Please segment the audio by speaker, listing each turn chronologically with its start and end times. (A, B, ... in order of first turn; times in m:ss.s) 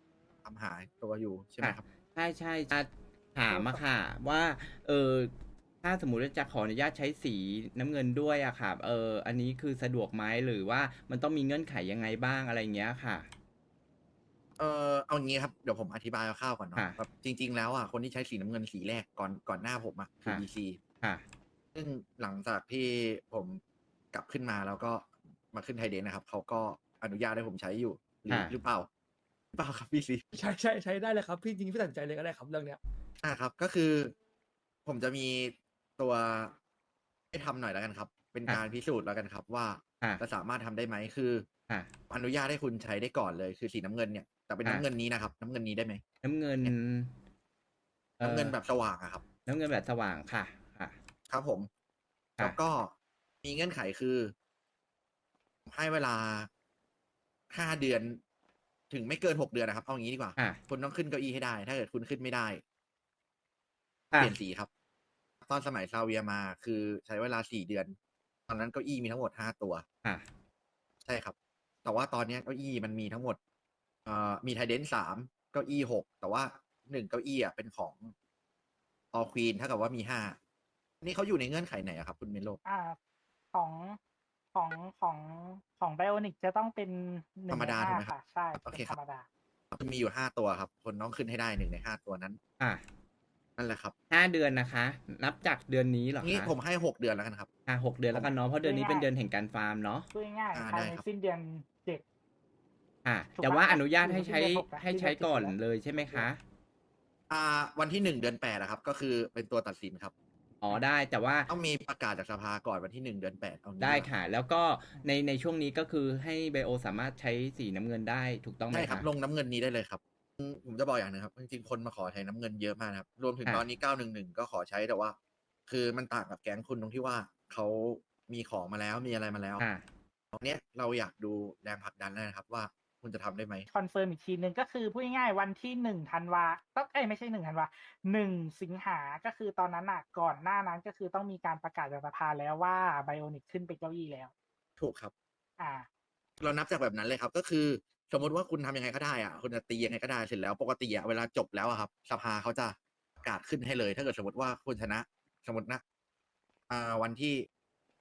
0:00.4-0:01.8 A
0:01.6-0:13.3 B
0:03.5-0:03.8 C
0:14.6-0:20.8 A
0:21.8-0:23.6 A
0:24.1-0:28.9 A
0:29.5-0:30.2 A
0:30.3-0:32.8 D
0:33.2-0:34.2 A
0:34.9-0:36.6 A
0:37.3-0:41.5 A
0:42.1-0:46.0 A
0:46.2-0:47.1 B
0:48.2-0:48.6 B
0:48.2-0:49.2 A
0:49.4-0:51.0 B
0:51.3-0:51.7 A
0:52.4-0:54.3 A
0:55.7-0:56.5 A
0:57.5-0:58.2 A
0:58.9-1:02.6 A
1:04.2-1:04.7 A
1:05.4-1:08.0 A
1:08.5-1:09.8 A
1:11.0-1:13.4 A
1:14.1-1:18.1 A
1:19.1-1:20.4 A
1:21.0-1:22.6 A
1:22.6-1:23.0 C
1:23.5-1:24.0 C
1:24.6-1:29.3 C
1:27.5-1:29.0 A
1:29.7-1:32.4 A
1:33.6-1:33.9 A
1:34.1-1:36.5 B
1:36.2-1:37.5 A
1:37.7-1:40.1 B
1:38.6-1:39.1 C
1:40.1-1:42.0 C
1:40.5-1:41.0 A
1:43.0-1:46.4 B
1:43.4-1:46.3 C
1:47.3-1:50.1 A
1:50.6-1:51.5 B
1:51.5-1:54.1 A
1:53.8-1:59.1 B
1:58.7-2:05.2 A
2:05.7-2:09.7 A
2:10.3-2:13.7 A
2:13.7-2:24.3 C
2:24.8-2:25.1 A
2:25.6-2:25.9 C
2:26.4-2:35.8 A
2:36.7-2:37.5 A